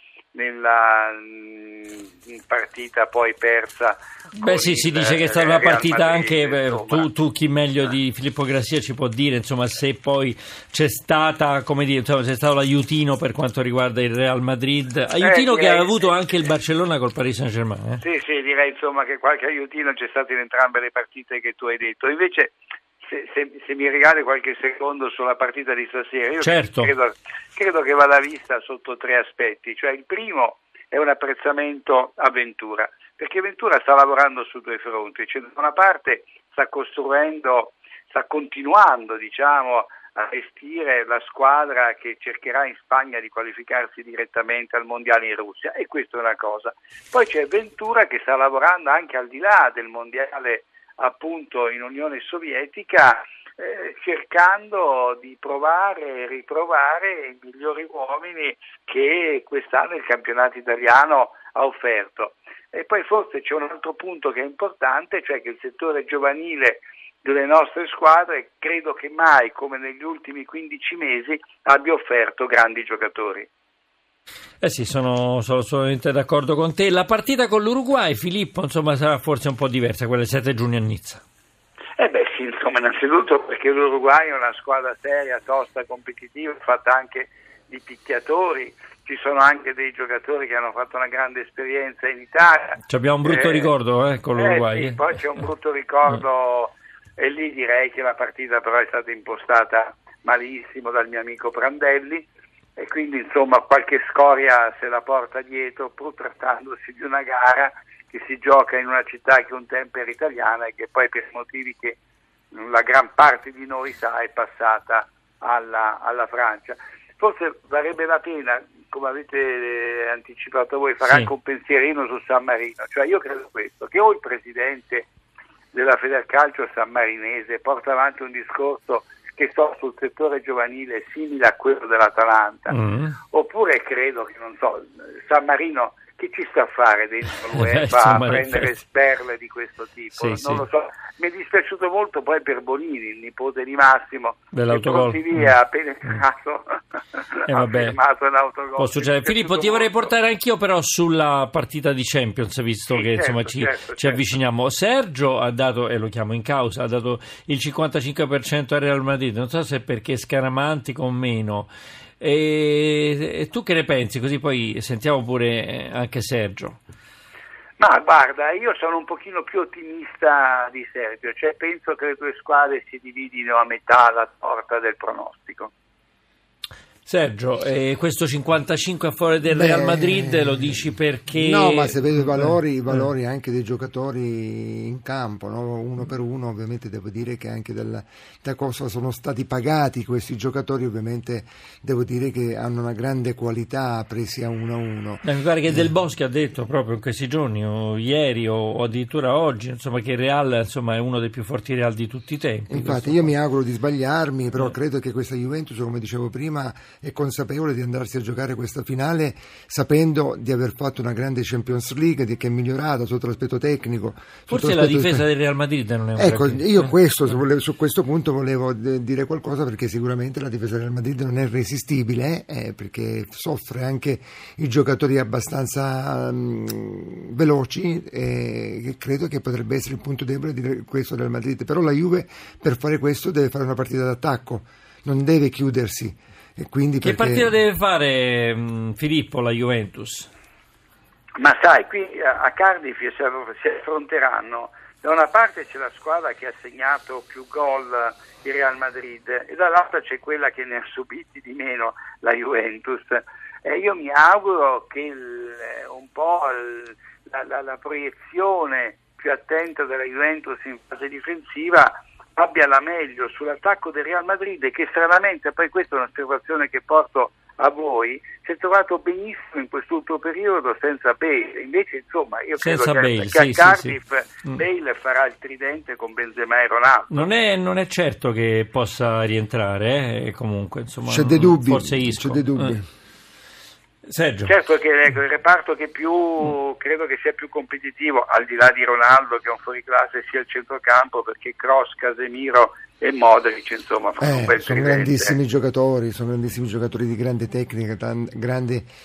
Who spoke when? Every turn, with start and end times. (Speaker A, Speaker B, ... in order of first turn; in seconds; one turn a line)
Speaker A: 0.3-7.1
Speaker B: 4.3-18.0
Speaker A: 15.2-16.1
Speaker A: 18.0-73.5
Speaker B: 26.4-26.9
Speaker B: 74.6-81.2
Speaker A: 82.0-93.7
Speaker B: 92.9-95.0
Speaker A: 94.4-112.0
Speaker A: 112.5-125.1
Speaker B: 121.0-121.3
Speaker A: 125.7-132.7
Speaker B: 132.7-133.2
Speaker A: 133.3-150.1
Speaker B: 137.5-138.8
Speaker B: 140.1-140.6
Speaker B: 144.5-145.5
Speaker B: 147.5-148.0
Speaker B: 148.8-166.8
Speaker A: 152.9-154.3
Speaker A: 167.8-175.7
Speaker B: 177.1-183.0
Speaker C: 179.5-180.8
Speaker C: 181.3-195.9
Speaker B: 195.2-203.3
Speaker C: 202.7-215.3
Speaker B: 214.5-217.0
Speaker C: 216.2-237.5
Speaker B: 237.0-240.3
Speaker A: 241.4-277.3
Speaker B: 272.6-274.5
Speaker B: 277.1-282.8
Speaker C: 281.1-282.9
Speaker B: 284.1-284.5
Speaker A: 284.5-295.4
Speaker C: 294.2-298.9